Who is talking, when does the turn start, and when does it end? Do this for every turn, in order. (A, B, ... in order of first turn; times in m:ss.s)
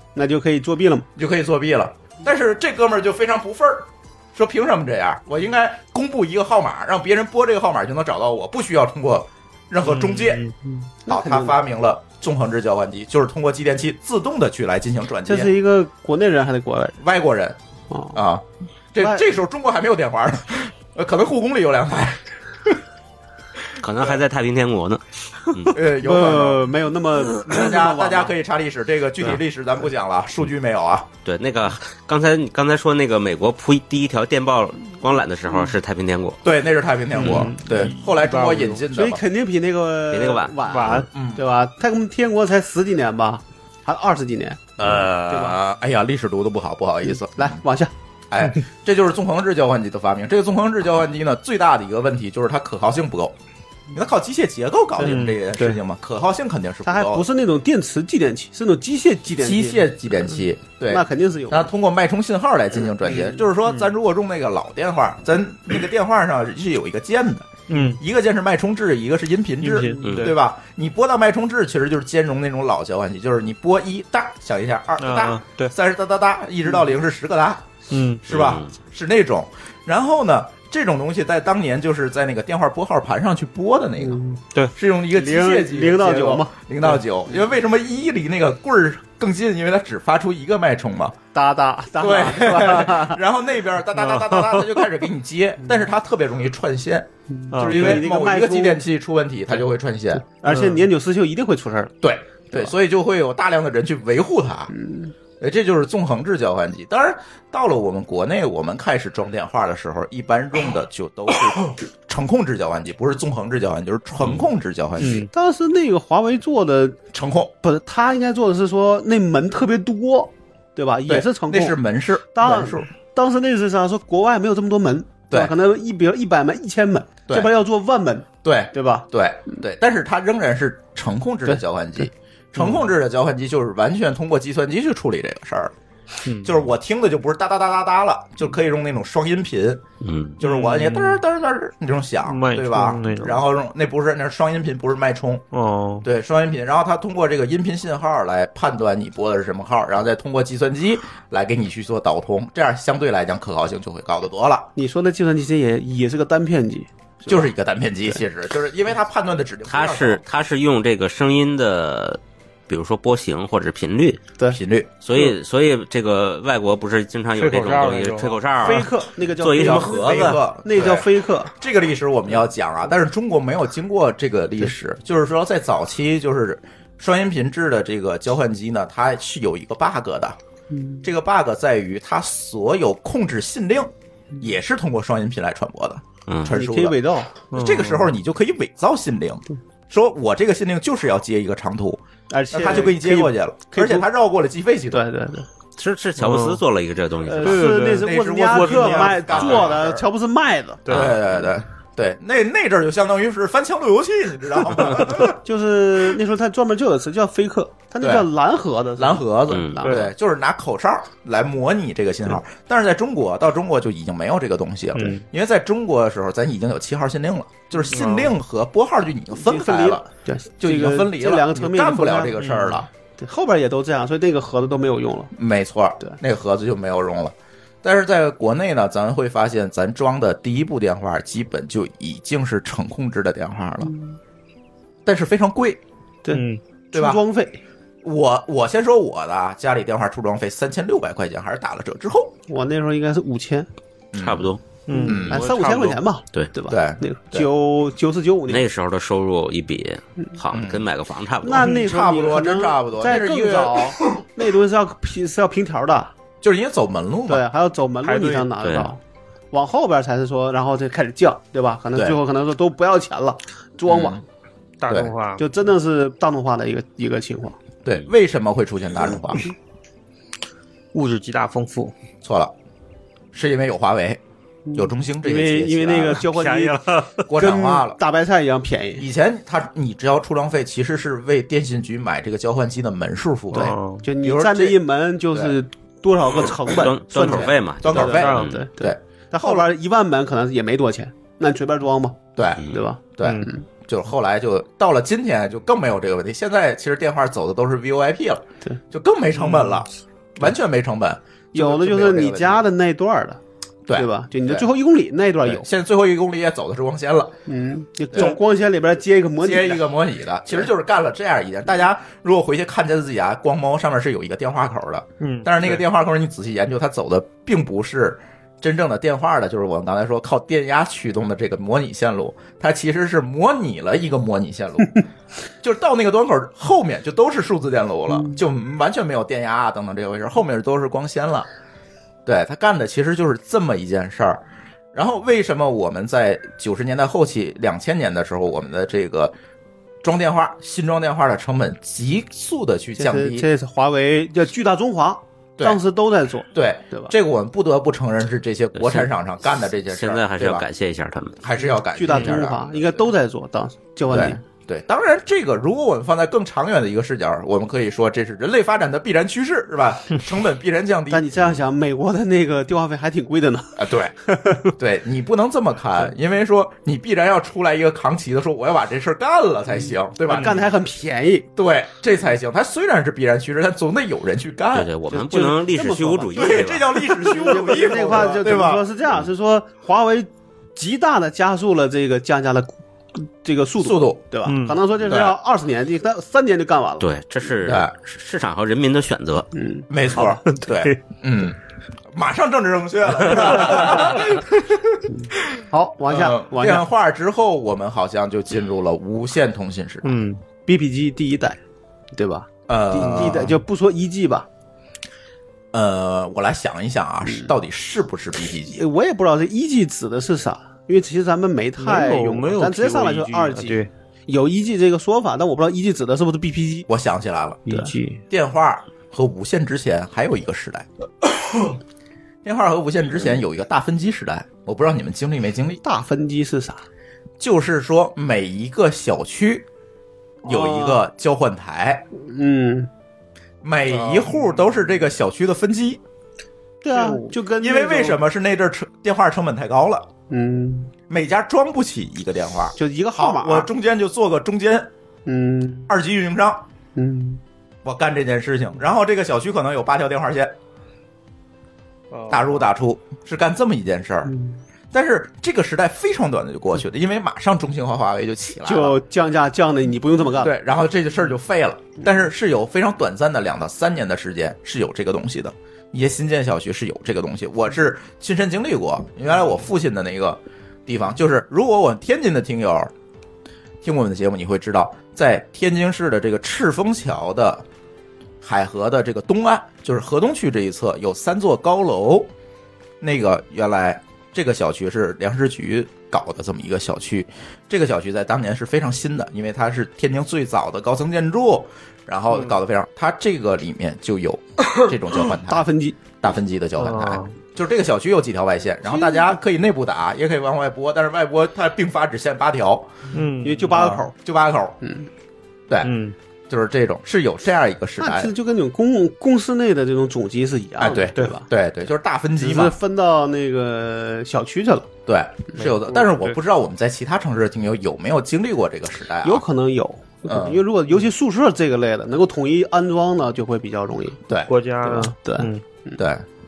0:00.2-0:01.1 A
0:01.2-0:10.4 B
0:09.8-0:10.6 C
0:11.0-0:11.6 A
0:11.1-0:15.5 B
0:15.3-0:17.0 A
0:17.0-0:17.6 B
0:17.9-0:18.2 A
0:18.1-0:22.8 B
0:19.0-0:19.2 A
0:23.8-0:25.8 D
0:25.7-0:26.7 B
0:26.0-0:28.4 A
0:27.4-0:31.1 B
0:31.2-0:36.4 D
0:36.4-0:39.2 B
0:37.2-0:38.8 C
0:38.9-0:45.6 A
0:40.1-0:41.0 D
0:40.6-0:41.1 C
0:41.1-0:41.4 B
0:44.8-0:47.6 B
0:47.1-0:47.9 A
0:48.3-0:53.4 B
0:53.9-0:57.3 B
0:55.0-0:55.8 C
0:56.8-0:59.9 A
0:59.4-1:17.6 B
1:00.9-1:01.7 A
1:03.0-1:03.4 A
1:03.6-1:03.9 C
1:07.7-1:08.0 C
1:09.6-1:10.4 C
1:10.0-1:10.4 D
1:15.0-1:15.7 C
1:17.9-1:18.2 C
1:18.2-1:24.2 B
1:18.3-1:18.7 D
1:24.0-1:24.4 A
1:24.8-1:31.2 B
1:25.1-1:26.9 A
1:31.3-1:33.2 A
1:32.0-1:40.2 B
1:34.0-1:34.8 C
1:37.3-1:38.8 A
1:37.5-1:38.0 C
1:40.2-1:42.0 A
1:40.5-1:40.9 C
1:42.0-1:44.7 B
1:44.7-1:45.1 A
1:45.4-1:55.3 B
1:55.0-1:55.3 C
1:55.3-1:57.0 A
1:57.1-1:57.5 B
1:57.6-2:01.8 A
2:01.1-2:02.9 B
2:02.4-2:09.1 A
2:08.4-2:15.7 B
2:16.2-2:16.6 C
2:16.4-2:19.8 B
2:20.0-2:20.4 D
2:20.4-2:25.5 B
2:20.4-2:21.2 C
2:22.3-2:23.4 C
2:25.5-2:26.1 C
2:26.0-2:34.7 B
2:34.8-2:37.5 A
2:37.3-2:40.2 B
2:39.7-2:44.2 D
2:44.5-2:44.9 B
2:45.0-2:50.4 D
2:47.4-2:48.9 C
2:48.6-2:51.5 A
2:49.5-3:00.4 B
3:00.7-3:01.0 A
3:01.0-3:07.0 B
3:06.3-3:06.6 D
3:06.5-3:07.3 A
3:07.5-3:08.1 C
3:07.5-3:15.0 B
3:12.3-3:14.1 A
3:14.9-3:15.5 A
3:15.8-3:17.8 D
3:16.2-3:16.6 C
3:17.2-3:20.9 A
3:17.4-3:19.6 C
3:17.9-3:20.1 B
3:20.9-3:21.2 C
3:20.9-3:25.4 B
3:20.9-3:21.2 D
3:25.4-3:30.0 A
3:28.0-3:28.3 B
3:29.0-3:40.1 B
3:29.5-3:29.8 D
3:29.8-3:30.1 C
3:35.0-3:35.2 C
3:37.9-3:38.3 C
3:39.3-3:45.3 A
3:40.6-3:42.8 B
3:42.4-3:42.7 C
3:45.4-3:53.9 B
3:53.8-3:54.1 A
3:55.1-3:55.8 B
3:56.2-3:57.6 A
3:56.3-3:56.6 C
3:56.9-3:57.2 B
3:58.0-4:02.3 B
4:02.5-4:03.7 A
4:04.1-4:04.5 B
4:04.2-4:04.6 D
4:04.9-4:06.0 C
4:04.9-4:08.7 A
4:05.1-4:05.4 B
4:06.7-4:07.5 B
4:08.5-4:11.7 D
4:10.5-4:10.9 B
4:11.4-4:16.1 A
4:11.6-4:13.9 B
4:16.4-4:17.4 B
4:17.3-4:19.0 A
4:18.0-4:18.5 C
4:18.6-4:18.9 D
4:19.5-4:24.2 A
4:23.9-4:24.2 B
4:24.8-4:25.4 C
4:25.4-4:27.6 A
4:27.8-4:29.5 B
4:30.9-4:31.9 C
4:32.2-4:32.5 B
4:33.3-4:34.2 B
4:34.7-4:39.0 A
4:34.8-4:36.2 B
4:36.2-4:37.2 C
4:37.3-4:38.0 B
4:39.0-4:44.8 B
4:43.5-4:44.1 C
4:44.0-4:53.6 A
4:46.7-4:48.7 D
4:47.2-4:47.5 C
4:47.8-4:49.6 B
4:48.1-4:48.5 C
4:52.4-5:02.7 B
4:53.2-4:53.5 C
5:01.5-5:03.4 A
5:03.9-5:04.7 B
5:04.0-5:05.7 A
5:05.4-5:07.3 B
5:07.5-5:09.9 A
5:09.4-5:25.0 B
5:15.2-5:15.8 C
5:25.6-5:31.5 B
5:28.1-5:28.4 A
5:32.3-5:34.4 B
5:34.9-5:39.3 B
5:40.0-5:43.5 B
5:43.0-5:47.1 A
5:46.5-5:50.6 B
5:48.8-5:49.1 D
5:49.9-5:51.4 D
5:51.4-5:53.1 B
5:51.9-5:54.4 A
5:54.1-6:01.3 B
6:01.1-6:04.6 A
6:03.8-6:10.6 B
6:10.3-6:11.5 A
6:11.6-6:14.9 B
6:14.7-6:17.0 D
6:15.1-6:27.1 A
6:16.4-6:18.8 B
6:23.8-6:24.2 B
6:24.4-6:24.8 C
6:25.0-6:25.4 B
6:27.0-6:29.5 D
6:27.6-6:27.9 B
6:29.6-6:30.4 A
6:29.9-6:31.6 B
6:30.2-6:31.0 C
6:32.1-6:40.2 B
6:35.1-6:36.8 A
6:40.0-6:40.4 C
6:40.7-6:41.6 A
6:42.1-6:44.5 A
6:42.7-6:43.6 B
6:45.7-6:48.8 B
6:47.3-6:47.5 A
6:48.7-6:56.9 A
6:51.8-6:53.9 C
6:56.9-6:57.6 B
6:57.7-6:58.2 C
6:57.7-6:57.9 A
6:58.3-7:01.8 B
7:02.4-7:05.8 B
7:05.8-7:06.8 A
7:07.4-7:09.6 B
7:10.4-7:11.0 A
7:10.5-7:12.0 B
7:12.1-7:12.9 A
7:13.6-7:16.0 B
7:13.9-7:14.8 C
7:16.8-7:18.2 A
7:16.9-7:17.3 C
7:17.6-7:20.1 B
7:20.3-7:20.9 A
7:21.1-7:24.9 B
7:22.8-7:23.7 A
7:25.3-7:25.9 A
7:25.9-7:26.6 B
7:27.0-7:27.4 A
7:27.8-7:30.5 B
7:32.1-7:32.6 C
7:32.3-7:34.3 B
7:34.3-7:34.6 A
7:34.9-7:39.0 B
7:38.6-7:40.5 A
7:40.4-7:52.9 B
7:53.8-7:57.6 B
7:58.4-8:02.3 B
8:03.0-8:15.6 B
8:15.5-8:16.0 A
8:16.2-8:22.9 B
8:16.8-8:17.4 C
8:18.9-8:19.4 A
8:23.1-8:23.8 C
8:23.4-8:24.1 A
8:23.7-8:24.8 B
8:24.8-8:25.1 A
8:25.8-8:26.2 C
8:26.5-8:28.3 B
8:28.0-8:31.5 A
8:30.8-8:32.8 B
8:32.4-8:34.9 A
8:35.1-8:39.4 B
8:35.6-8:36.4 C
8:39.2-8:44.2 A
8:40.3-8:40.6 B
8:44.5-8:45.6 C
8:44.8-8:46.0 A
8:46.0-8:46.2 B